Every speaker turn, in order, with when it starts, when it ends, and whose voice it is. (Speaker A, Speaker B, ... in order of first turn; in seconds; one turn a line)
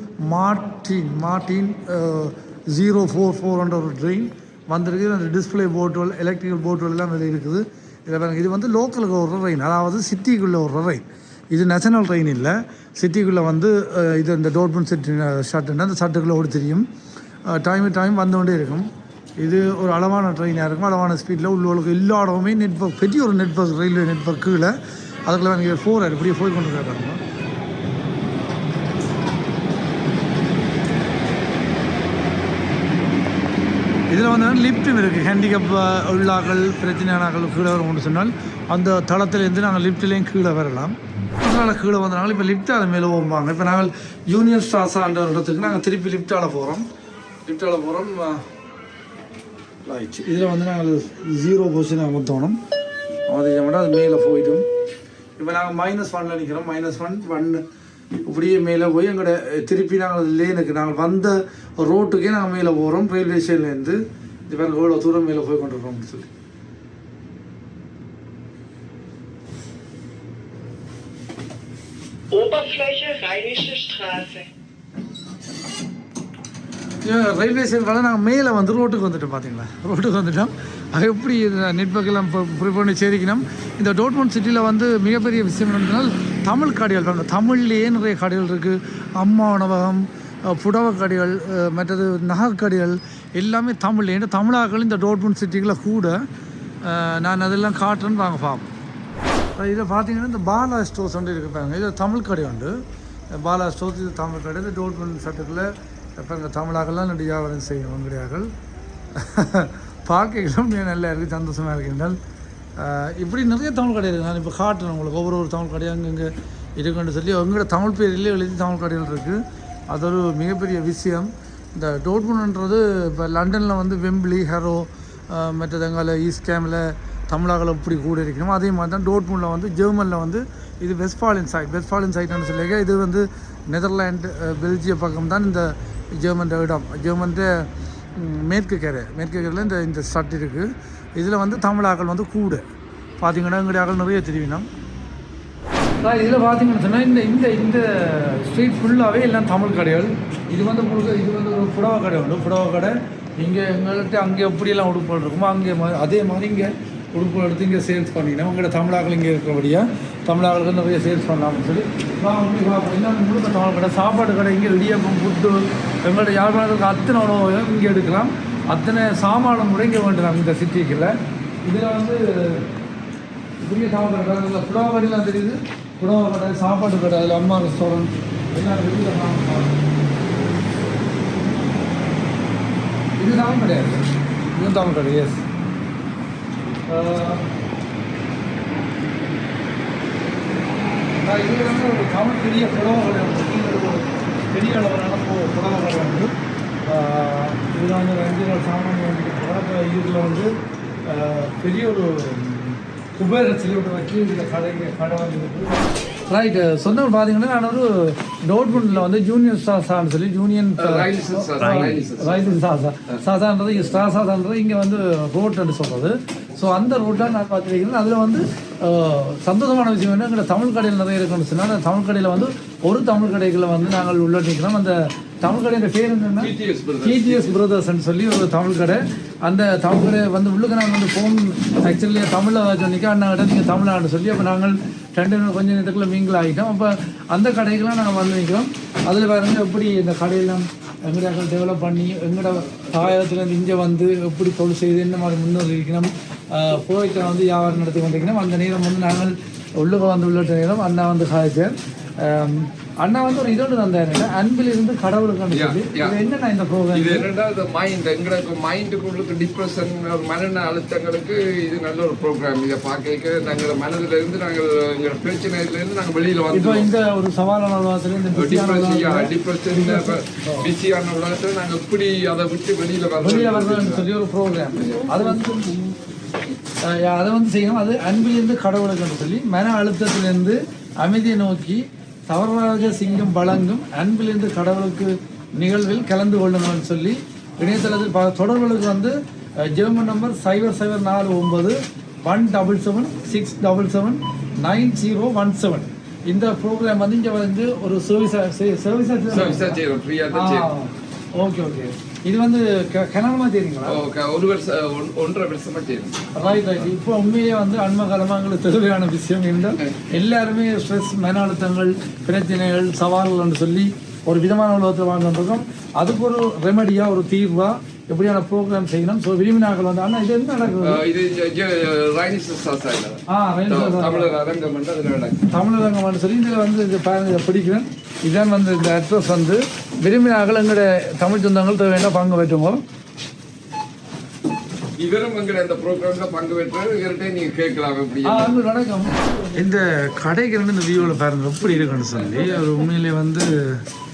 Speaker A: 0.2-16.8
Speaker A: 17.5-24.7
Speaker A: 25.3-27.2
Speaker A: 34.1-46.9
Speaker A: 47.5-48.5
Speaker A: 49.9-52.6
Speaker A: 53.3-54.6
Speaker A: 55.4-57.6
Speaker A: 58.2-66.3
Speaker B: 72.3-74.5
Speaker A: 77.0-96.2
Speaker A: 96.8-98.7
Speaker A: 99.5-102.8
Speaker A: 103.3-108.5
Speaker A: 109.1-112.2
Speaker A: 112.8-142.6
Speaker A: 143.2-144.7
Speaker A: 146.0-172.7
Speaker A: 173.6-179.8
Speaker A: 183.2-185.4
Speaker A: 186.9-187.5
Speaker A: 191.2-196.3
Speaker A: 196.8-200.5
Speaker A: 201.1-226.5
Speaker C: 210.8-212.5
Speaker C: 226.4-227.6
Speaker A: 227.0-257.3
Speaker C: 255.5-256.2
Speaker C: 256.9-266.9
Speaker A: 266.5-270.7
Speaker C: 268.3-274.1
Speaker A: 273.2-275.9
Speaker A: 276.8-299.8
Speaker C: 299.3-300.7
Speaker A: 300.3-304.0
Speaker C: 303.9-306.2
Speaker A: 306.3-321.0
Speaker C: 320.8-325.5
Speaker A: 323.3-324.3
Speaker A: 325.5-332.8
Speaker C: 335.0-338.6
Speaker A: 338.2-343.8